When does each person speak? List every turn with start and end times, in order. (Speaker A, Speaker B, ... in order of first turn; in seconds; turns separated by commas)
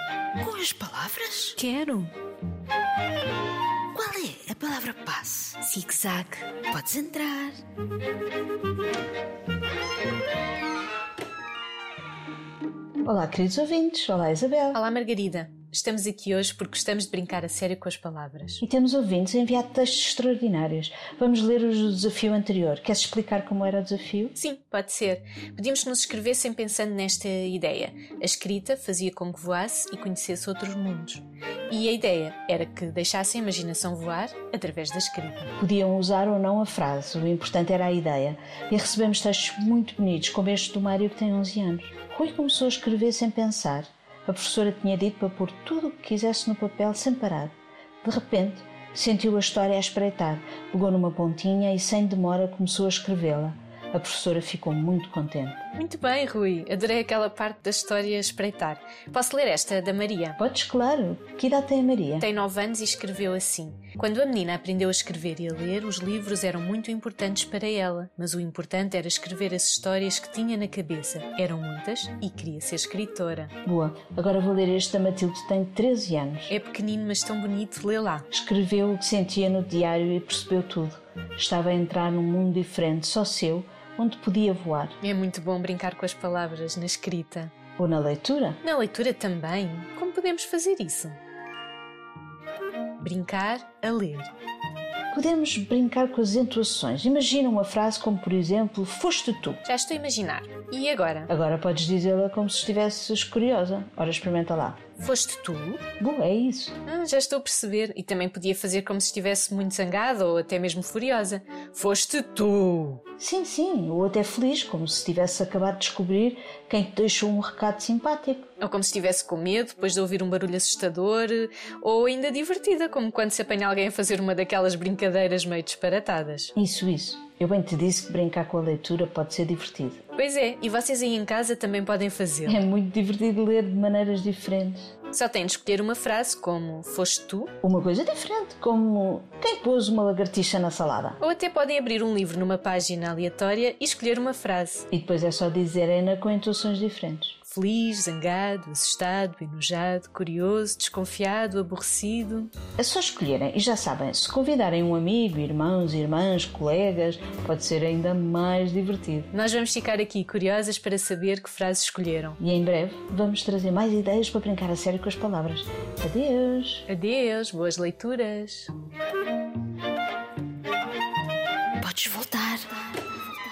Speaker A: 0.4-1.5, Speaker B: 1.6-2.1, Speaker A: 3.9-7.6, Speaker B: 5.7-6.2, Speaker C: 13.0-14.8, Speaker B: 14.7-18.6, Speaker C: 18.6-24.3, Speaker B: 24.3-35.5, Speaker C: 35.6-55.7, Speaker B: 55.7-60.4, Speaker C: 60.4-62.2, Speaker B: 62.2-73.5, Speaker C: 73.6-76.5, Speaker B: 76.5-78.3, Speaker C: 78.3-85.0, Speaker B: 85.0-87.5, Speaker C: 87.8-88.6, Speaker B: 88.6-91.2, Speaker B: 93.0-94.3, Speaker C: 95.1-99.6, Speaker B: 99.6-101.3, Speaker C: 101.3-104.8, Speaker B: 105.0-105.8, Speaker C: 106.0-106.8, Speaker B: 106.8-113.0, Speaker C: 113.2-118.5, Speaker B: 118.6-126.5, Speaker C: 126.5-130.0, Speaker B: 130.2-132.7, Speaker C: 132.4-134.9, Speaker B: 135.1-137.5, Speaker C: 137.6-141.2, Speaker B: 141.2-144.9, Speaker C: 144.9-147.3, Speaker B: 147.4-152.5, Speaker C: 152.8-159.3, Speaker B: 159.3-162.4, Speaker C: 162.4-166.8, Speaker B: 166.9-168.7, Speaker A: 171.8-173.2